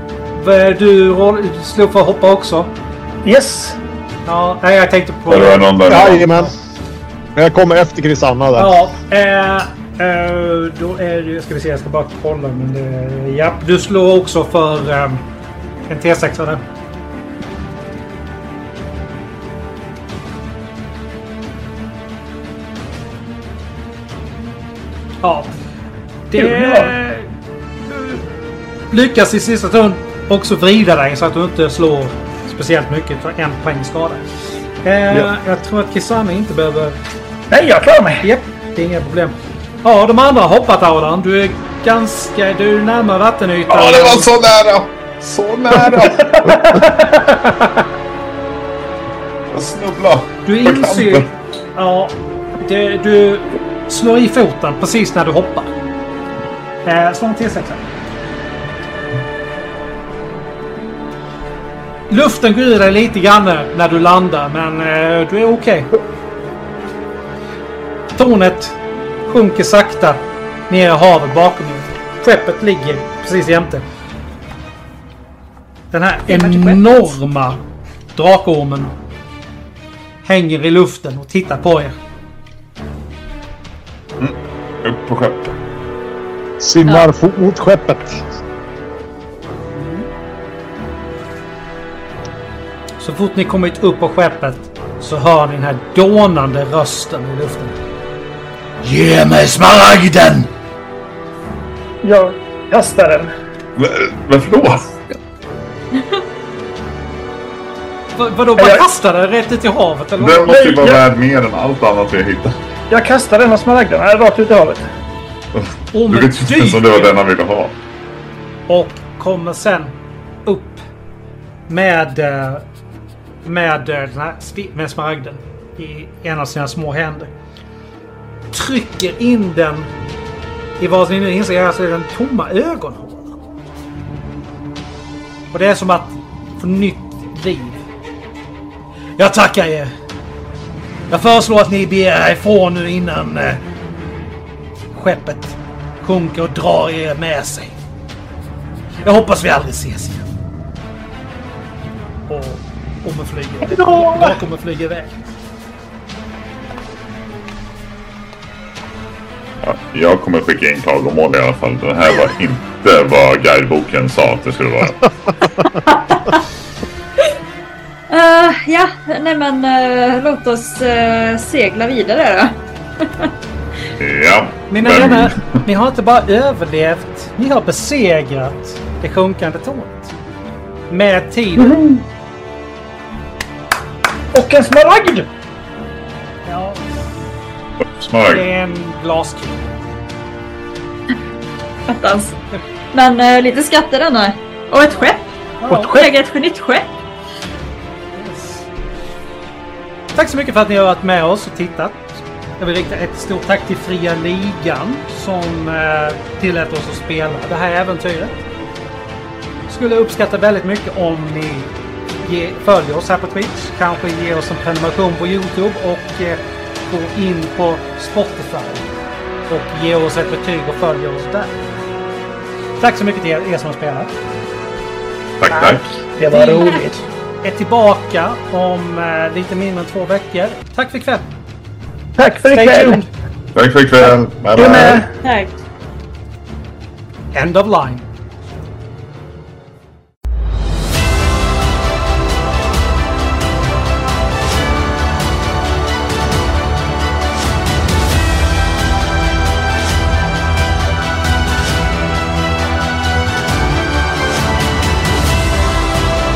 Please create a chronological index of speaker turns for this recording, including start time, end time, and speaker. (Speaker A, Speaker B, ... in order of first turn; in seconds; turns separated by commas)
Speaker A: 0.4-2.7, Speaker B: 3.2-3.8, Speaker A: 4.3-6.5, Speaker C: 5.3-6.4, Speaker D: 5.9-6.5, Speaker D: 7.3-8.7, Speaker A: 8.6-15.2, Speaker A: 15.9-16.6, Speaker A: 25.2-25.5, Speaker A: 26.3-27.3, Speaker B: 26.4-26.9, Speaker A: 27.9-28.3, Speaker A: 28.9-34.3, Speaker A: 34.8-37.0, Speaker B: 37.5-38.3, Speaker A: 38.2-44.4, Speaker C: 43.7-46.6, Speaker B: 46.0-47.7, Speaker C: 49.5-51.3, Speaker A: 50.5-55.7, Speaker A: 56.8-57.8, Speaker A: 62.1-65.9, Speaker A: 68.2-73.8, Speaker A: 75.9-77.6, Speaker E: 76.3-77.0, Speaker A: 78.2-79.0, Speaker A: 80.2-82.0, Speaker C: 84.2-85.5, Speaker D: 86.6-88.2, Speaker A: 89.7-90.1, Speaker A: 93.0-97.8, Speaker A: 98.8-100.5, Speaker B: 102.0-103.3, Speaker C: 103.8-104.9, Speaker A: 108.2-110.6, Speaker B: 108.6-108.8, Speaker C: 110.2-112.6, Speaker B: 110.5-111.0, Speaker B: 112.9-114.8, Speaker C: 115.5-117.8, Speaker A: 115.9-117.1, Speaker A: 118.7-120.0, Speaker A: 120.5-120.8, Speaker A: 121.7-122.7, Speaker A: 123.5-127.3, Speaker A: 128.5-129.9, Speaker A: 130.8-133.4, Speaker A: 135.5-137.9, Speaker A: 139.2-139.9, Speaker A: 141.1-143.6, Speaker A: 144.9-147.8, Speaker A: 149.0-150.3, Speaker A: 152.3-155.1, Speaker B: 153.7-154.4, Speaker C: 159.6-165.1, Speaker E: 165.6-166.4, Speaker E: 168.1-173.3, Speaker C: 174.0-175.4, Speaker A: 174.7-180.1, Speaker A: 180.9-181.8, Speaker B: 181.6-182.0, Speaker B: 184.3-185.3, Speaker A: 186.4-187.0, Speaker C: 188.0-188.4, Speaker A: 188.2-189.9, Speaker E: 191.9-192.4, Speaker E: 192.9-195.3, Speaker A: 195.6-195.9, Speaker B: 195.7-196.1, Speaker E: 195.8-196.9, Speaker A: 198.2-198.7, Speaker A: 200.1-208.4, Speaker A: 209.7-218.9, Speaker A: 219.5-221.7, Speaker A: 222.8-224.2, Speaker C: 225.4-225.8, Speaker B: 225.5-227.0, Speaker E: 226.3-226.9, Speaker A: 226.4-226.8, Speaker A: 227.4-231.3, Speaker B: 232.2-233.0, Speaker A: 232.5-233.1, Speaker C: 233.5-235.0, Speaker B: 234.0-235.1, Speaker E: 234.6-235.5, Speaker A: 237.3-238.0